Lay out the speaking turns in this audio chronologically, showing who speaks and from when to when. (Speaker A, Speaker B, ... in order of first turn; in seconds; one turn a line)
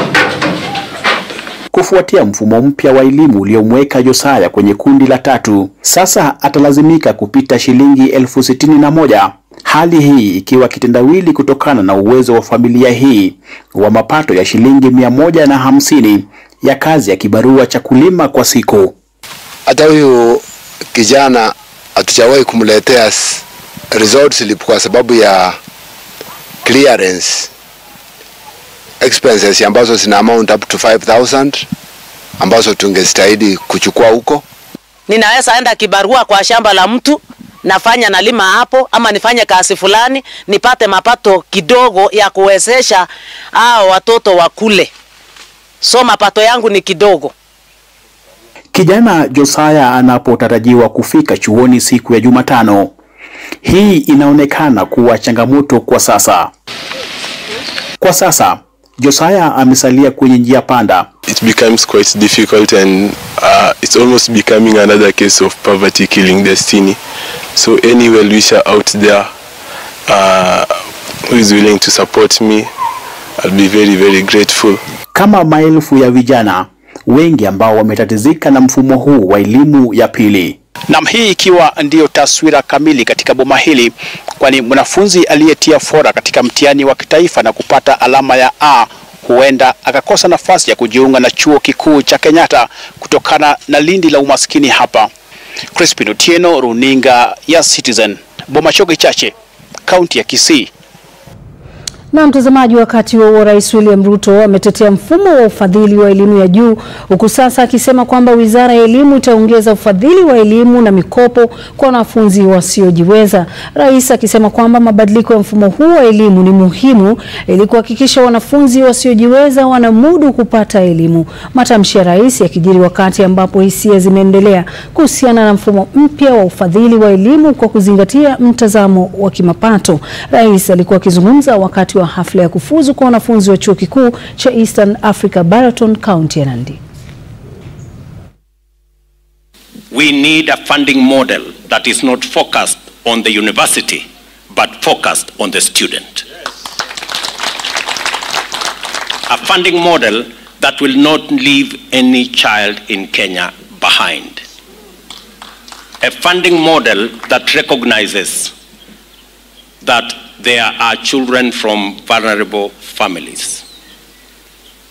Speaker A: 1.7-18.9
Speaker B: 19.7-20.4
Speaker B: 20.9-23.4
Speaker B: 23.9-25.6
Speaker B: 26.6-27.4
Speaker B: 29.0-31.6
Speaker B: 32.4-34.4
Speaker C: 35.1-44.9
Speaker C: 45.8-47.3
Speaker A: 48.7-52.9
Speaker A: 53.6-56.5
Speaker A: 58.0-61.1
Speaker D: 61.3-67.0
Speaker D: 67.6-69.3
Speaker D: 70.1-70.7
Speaker D: 71.3-72.7
Speaker D: 73.4-74.8
Speaker A: 75.1-80.6
Speaker E: 80.9-95.1
Speaker E: 95.8-99.3
Speaker E: 99.9-100.7
Speaker F: 102.1-136.8
Speaker G: 139.9-146.2
Speaker G: 149.3-154.4
Speaker G: 156.0-158.5
Speaker G: 159.8-163.6